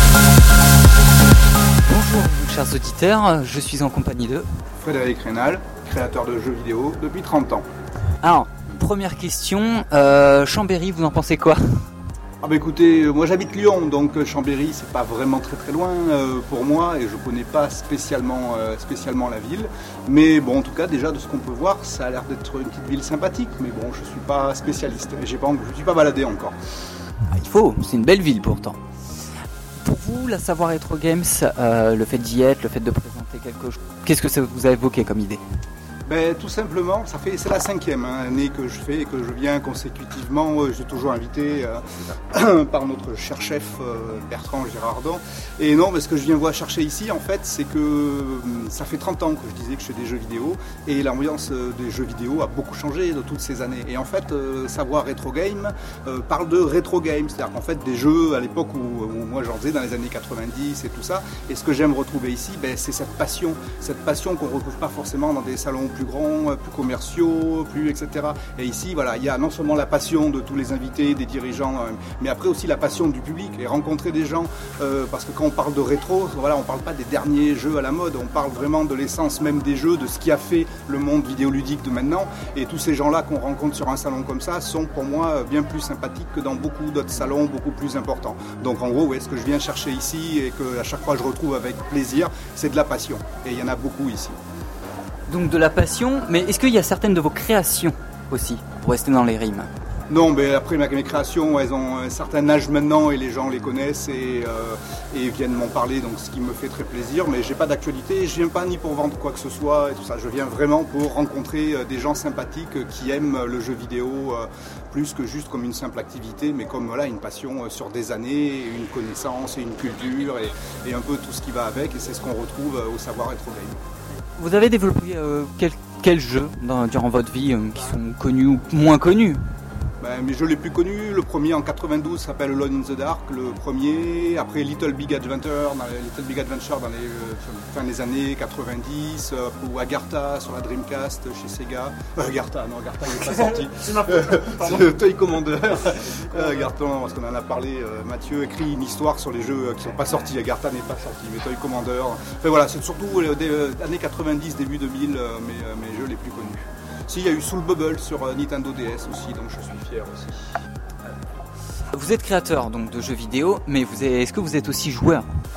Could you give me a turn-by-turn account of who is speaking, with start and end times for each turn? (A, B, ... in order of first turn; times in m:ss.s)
0:01.9-0:04.5 A
0:04.8-0:07.6 B
0:08.2-0:11.8 A
0:12.4-0:26.6 B
0:27.3-0:28.8 A
0:29.8-0:35.4 A
0:36.1-1:34.4 B
1:35.3-1:39.7 A
1:40.1-2:03.8 B
2:04.4-2:09.4 A
2:10.0-2:40.4 B
2:41.9-2:45.3 A